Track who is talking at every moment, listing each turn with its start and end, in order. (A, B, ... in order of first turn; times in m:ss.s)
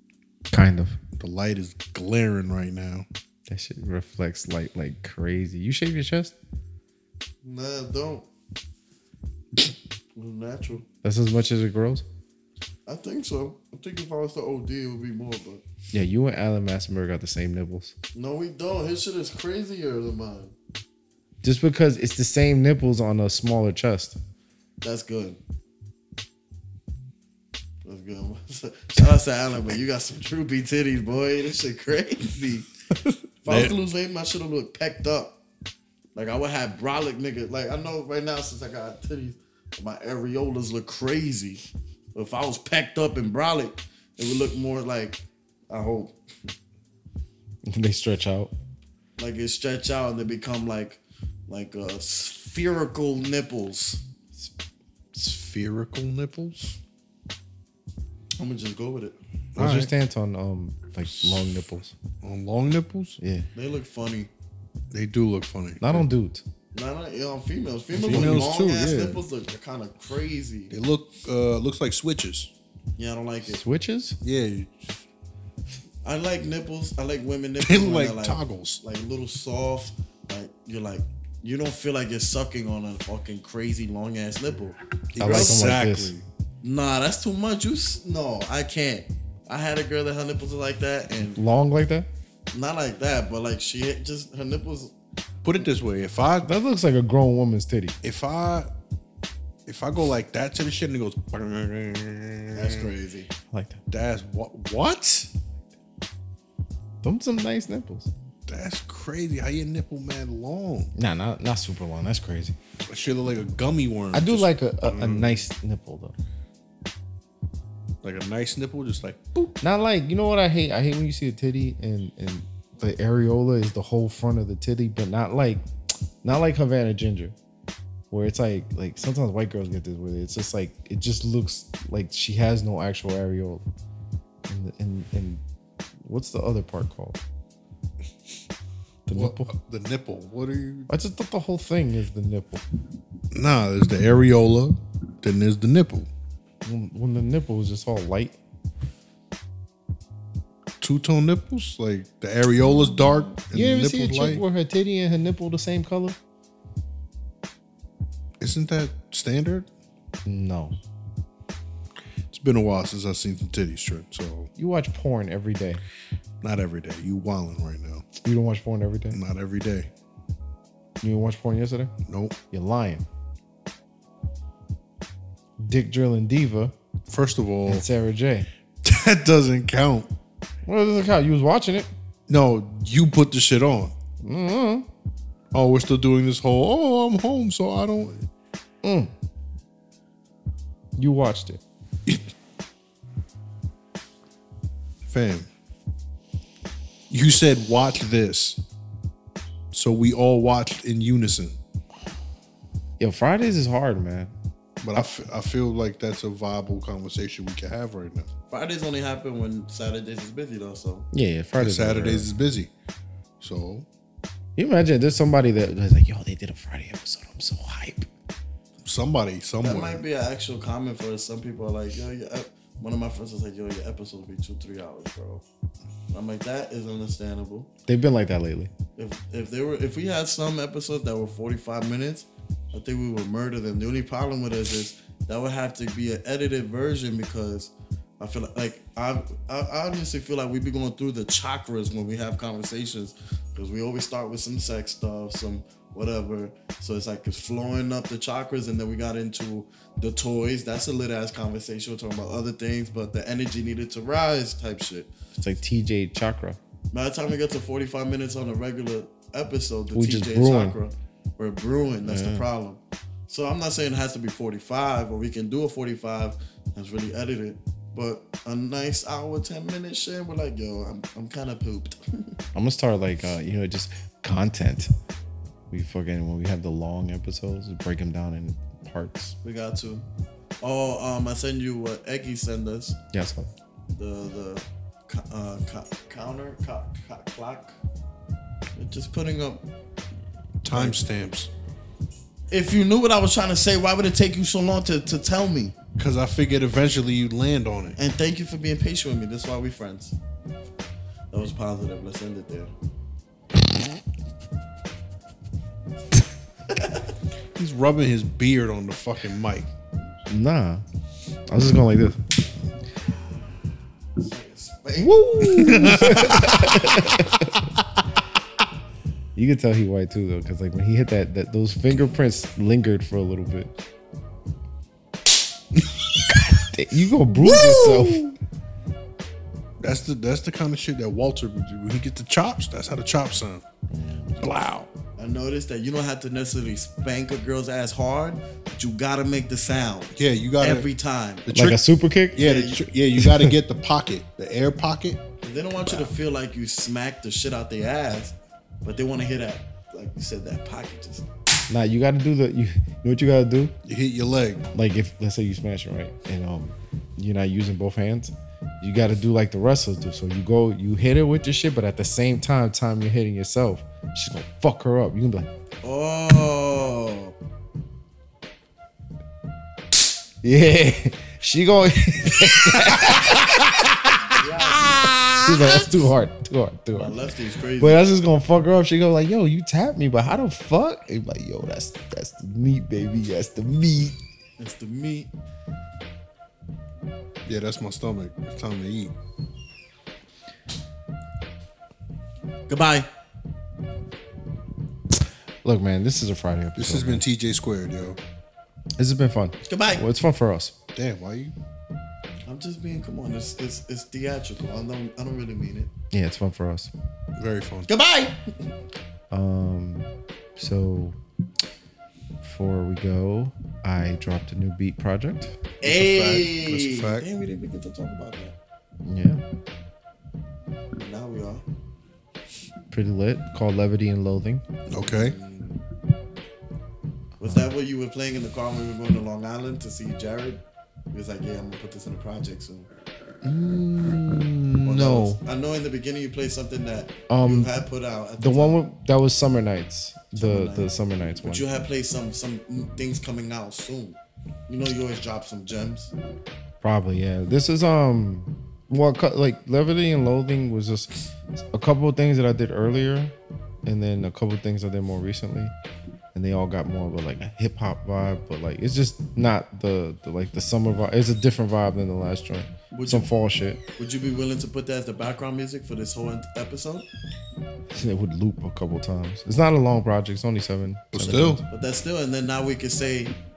0:00.5-0:01.0 A
0:01.2-0:03.1 B
0:03.5-0:06.4 A
0:07.4-0:08.3 C
0:10.2-0:10.8 C
0:11.0-0:12.0 A
0:12.9-0:15.6 C
0:15.9-0:17.9 A
0:18.2-0:20.5 C
0:21.4-0:24.2 A
0:24.8-0:25.4 C
0:27.8-0:32.7 C
0:33.1-0:33.8 B
0:33.4-0:35.4 C
0:36.2-0:41.6 C
0:42.1-0:46.2 C
0:47.6-0:48.5 A
0:49.2-0:54.0 C
0:55.2-0:56.7 B
0:58.4-0:59.2 C
0:59.6-0:59.9 B
0:59.6-1:02.0 A
1:01.1-1:01.6 B
1:02.2-1:03.2 B
1:03.2-1:03.5 A
1:03.6-1:04.3 C
1:04.9-1:06.1 B
1:05.8-1:06.4 A
1:06.7-1:10.7 C
1:08.0-1:09.2 B
1:08.0-1:08.5 A
1:10.7-1:12.5 B
1:13.0-1:13.6 C
1:13.4-1:14.2 A
1:14.2-1:15.0 B
1:16.0-1:25.6 C
1:17.6-1:18.8 B
1:25.1-1:26.2 B
1:25.2-1:26.1 A
1:26.6-1:31.4 C
1:31.3-1:32.1 A
1:32.5-1:34.9 C
1:35.4-1:36.5 B
1:36.4-1:38.0 A
1:38.0-1:38.7 B
1:39.7-1:42.9 B
1:42.5-1:43.3 C
1:43.5-1:43.8 A
1:43.9-1:45.3 B
1:47.0-1:48.1 A
1:48.5-1:50.9 B
1:51.0-1:52.6 A
1:52.9-1:55.5 B
1:54.1-1:56.2 A
1:58.0-1:59.5 B
1:59.6-2:05.6 A
2:06.2-2:07.4 A
2:08.1-2:13.7 A
2:14.5-2:15.4 A
2:16.0-2:17.2 A
2:19.1-2:19.5 A
2:19.1-2:20.9 B
2:20.9-2:22.6 A
2:23.3-2:26.1 B
2:26.6-2:28.4 A
2:30.8-2:34.4 B
2:33.5-2:36.2 A
2:38.4-2:39.7 B
2:40.3-2:40.8 A
2:42.3-2:44.5 B
2:44.6-2:45.8 A
2:46.4-2:48.1 B
2:48.2-2:49.2 A
2:49.1-2:49.9 B
2:51.0-2:51.9 A
2:52.1-2:52.4 B
2:52.5-2:53.1 A
2:55.6-2:56.8 A
2:57.1-2:57.8 B
2:57.7-2:58.5 A
2:58.8-3:00.1 B
3:00.6-3:01.9 A
3:02.3-3:04.0 B
3:04.2-3:04.9 A
3:05.5-3:08.3 B
3:08.8-3:09.1 A
3:11.0-3:11.6 A
3:15.1-3:15.5 B
3:17.1-3:18.6 B
3:19.7-3:21.6 B
3:23.0-3:24.3 A
3:24.8-3:28.3 B
3:28.5-3:31.1 C
3:31.1-3:32.3 A
3:31.6-3:32.7 B
3:33.4-3:33.9 B
3:34.6-3:38.1 A
3:38.8-3:40.0 B
3:39.6-3:45.4 C
3:46.1-3:47.7 C
3:47.9-3:48.7 A
3:49.0-4:15.1 C
4:15.4-4:16.6 A
4:16.9-4:32.4 C
4:19.9-4:20.8 A
4:22.0-4:22.5 A
4:32.5-4:34.9 A
4:35.7-4:39.4 A
4:39.4-4:40.1 C
4:40.6-4:43.0 C
4:43.1-4:43.5 A
4:43.9-4:47.8 C
4:48.8-4:49.6 C
4:50.6-4:51.5 B
4:50.7-4:51.0 C
4:52.5-4:55.8 C
4:56.0-4:58.0 B
4:58.0-5:00.2 C
5:01.3-5:02.7 C
5:06.7-5:07.0 C
5:07.6-5:09.7 B
5:10.3-5:10.8 A
5:11.5-5:12.2 A
5:14.2-5:15.2 C
5:15.0-5:17.7 A
5:15.5-5:17.0 B
5:19.4-5:23.7 A
5:25.7-5:26.4 B
5:26.3-5:28.4 A
5:27.4-5:28.2 B
5:29.8-5:33.6 B
5:33.9-5:34.5 A
5:34.4-5:34.9 B
5:35.2-5:41.5 C
5:40.2-5:40.9 B
5:41.5-5:41.8 B
5:41.5-5:42.6 A
5:42.4-5:45.2 B
5:42.4-5:42.8 C
5:43.2-5:43.6 A
5:45.4-5:51.3 C
5:45.8-5:46.1 B
5:51.7-5:53.8 A
5:53.8-5:54.7 B
5:54.7-6:05.5 A
6:05.8-6:07.4 C
6:10.4-6:14.3 A
6:14.3-6:15.1 C
6:15.0-6:15.5 B
6:15.4-6:17.2 A
6:16.9-6:18.0 C
6:17.8-6:24.2 A
6:24.6-6:25.3 C
6:27.4-6:29.1 B
6:32.7-6:33.1 C
6:35.6-6:37.2 A
6:36.8-6:38.2 B
6:39.0-6:40.8 A
6:39.7-6:40.1 C
6:41.0-6:41.6 B
6:42.4-6:45.9 C
6:46.1-6:46.9 A
6:47.4-6:47.9 B
6:47.9-6:48.4 C
6:49.3-6:51.2 A
6:52.4-6:55.6 A
6:55.8-6:57.2 B
6:55.8-6:58.6 C
6:59.0-6:59.4 A
7:01.0-7:01.6 C
7:02.9-7:04.6 A
7:04.9-7:05.4 B
7:05.0-7:05.8 C
7:07.4-7:10.6 C
7:11.1-7:12.9 C
7:13.4-7:15.4 A
7:14.8-7:18.8 C
7:17.3-7:17.7 A
7:18.4-7:21.7 A
7:20.4-7:26.1 C
7:26.8-7:31.1 A
7:31.7-7:33.3 A
7:33.8-7:35.7 A
7:36.3-7:43.8 A
7:42.9-7:43.3 C
7:44.0-7:47.1 C
7:47.9-7:51.6 A
7:51.1-7:51.6 B
7:51.7-7:53.3 C